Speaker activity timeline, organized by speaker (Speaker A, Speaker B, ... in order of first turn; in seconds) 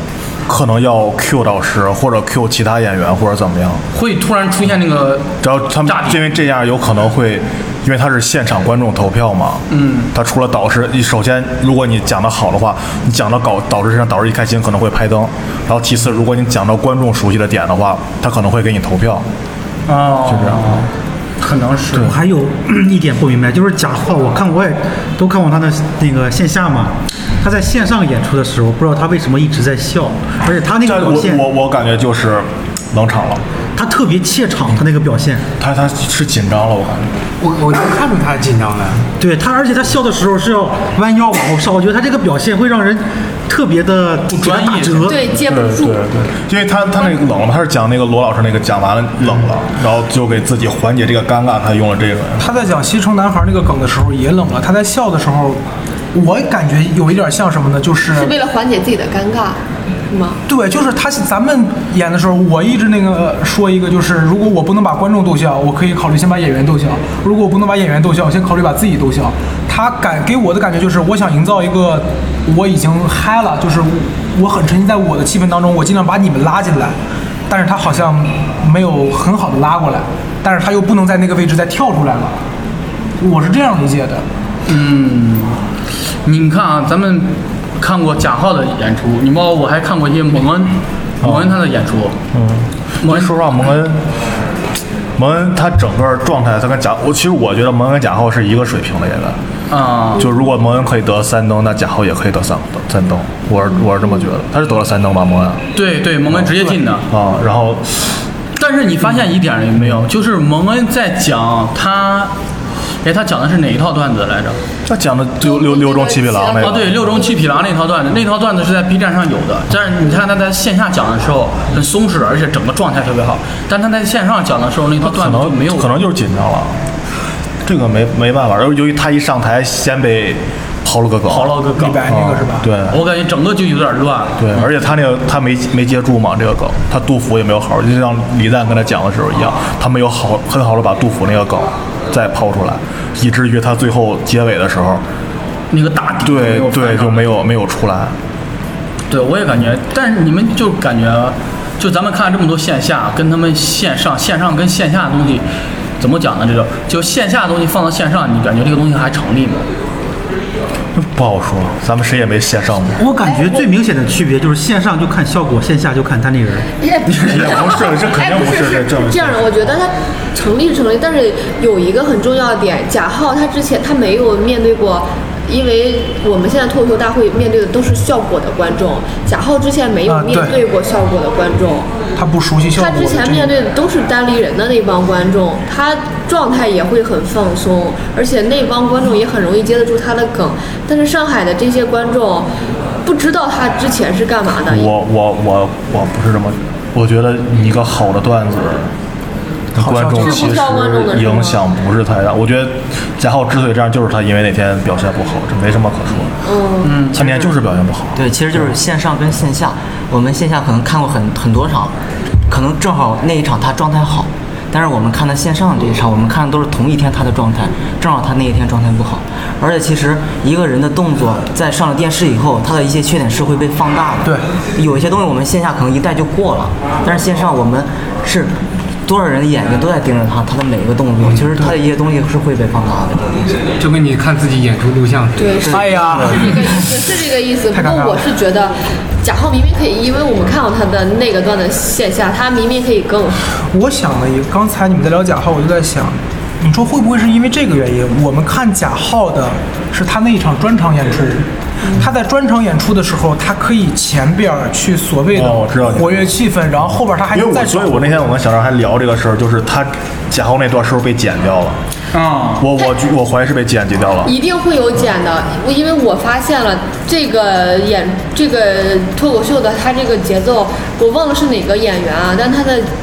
Speaker A: 0.5-3.8, 5.4-19.2, 20.2-20.8, 30.8-33.4, 35.6-37.1, 45.4-52.5, 91.2-91.6, 92.3-94.0, 95.2-99.4, 100.2-105.6, 106.3-106.6, 107.1-108.2, 114.9-117.1, 125.0-126.8, 127.7-133.0, 134.4-145.0, 146.2-148.2, 161.0-163.0, 167.2-169.7, 194.7-198.9, 199.8-206.4, 207.1-208.7, 255.3-256.3, 257.3-261.8, 262.6-264.3
Speaker B: 3.9-6.2, 9.7-10.1, 19.9-22.2, 44.3-45.2, 84.7-85.6, 86.2-92.2, 93.0-93.7, 99.7-100.3, 105.8-107.1, 108.6-112.3, 113.0-114.6, 116.6-126.0, 131.3-132.1, 132.9-134.7, 145.7-147.3, 149.1-155.4, 156.0-159.6, 167.1-167.5, 206.8-207.3, 262.1-262.7
Speaker C: 22.0-31.4, 33.8-35.4, 39.2-45.2, 163.0-166.7
Speaker D: 37.4-39.1, 233.8-235.6
Speaker E: 45.0-46.1, 58.1-60.4, 115.4-117.6, 163.2-163.6, 166.8-181.9, 182.8-192.5, 193.1-194.9, 200.2-201.6, 206.4-207.1, 235.4-243.4, 264.2-272.9
Speaker F: 52.4-55.6, 56.1-58.3, 60.5-77.0, 77.5-82.4, 83.2-84.2, 131.8-132.7, 180.1-180.6, 182.2-183.5, 199.8-200.5, 235.7-236.6, 237.7-238.2, 243.7-258.3
Speaker G: 208.2-211.9, 212.5-233.7, 235.7-236.4